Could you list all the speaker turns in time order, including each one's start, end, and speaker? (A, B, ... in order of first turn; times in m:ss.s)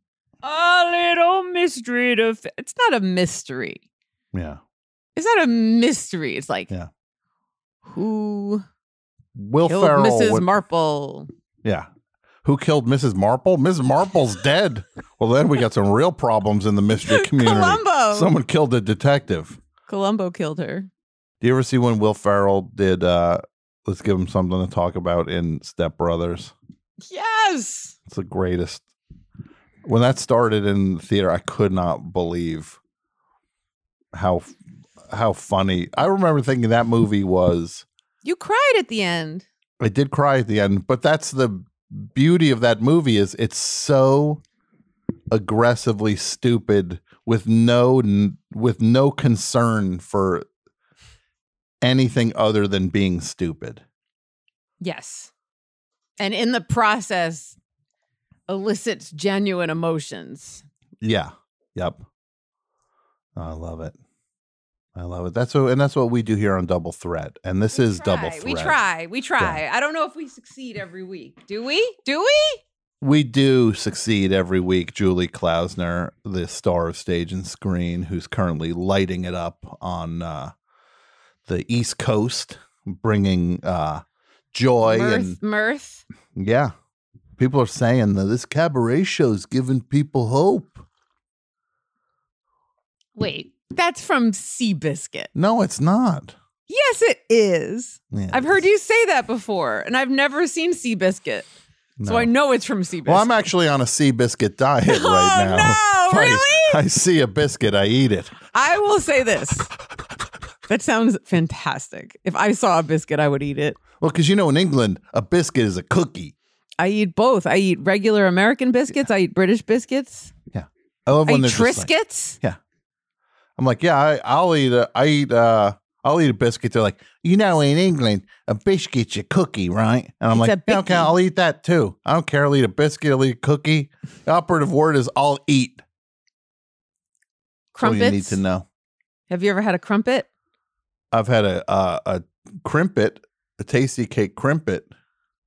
0:00.4-0:03.8 A
0:04.3-0:04.6 B
0:05.2-0:06.7 A
0:07.8-0:08.6 A
0:09.3-0:10.5 B
0:09.6-0:11.3 A
0:12.4-0:19.6 B
0:17.1-0:18.3 A
0:19.9-0:20.9 A
0:21.4-0:26.5 B
0:27.1-0:28.0 A
0:28.1-0:28.8 B
0:29.8-0:32.8 B
0:34.1-0:34.5 B
0:35.1-0:37.8 B
0:38.2-0:39.4 A
0:39.8-0:44.4 B
0:45.3-0:50.4 B
0:51.8-0:53.8 B
0:54.8-0:55.3 A
0:56.2-0:57.6 A
0:58.5-1:00.6 A
1:01.0-1:02.0 B
1:03.4-1:04.0 B
1:04.9-1:08.8 B
1:07.7-1:12.6 A
1:13.0-1:20.5 B
1:21.4-1:25.4 B
1:24.8-1:26.0 A
1:26.4-1:26.7 B
1:27.4-1:30.8 B
1:33.2-1:35.3 A
1:35.3-1:36.3 B
1:36.7-1:41.5 A
1:38.1-1:38.6 B
1:42.0-1:42.3 B
1:42.0-1:43.3 A
1:43.0-1:48.4 B
1:44.9-1:46.8 A
1:48.5-1:49.7 A
1:50.7-1:53.8 A
1:54.0-1:56.3 B
1:56.8-2:00.3 A
2:00.5-2:02.6 B
2:01.2-2:02.4 A
2:03.6-2:15.8 B
2:10.3-2:11.1 A
2:17.7-2:18.4 A
2:17.8-2:18.6 B
2:19.3-2:20.3 A
2:21.1-2:24.9 B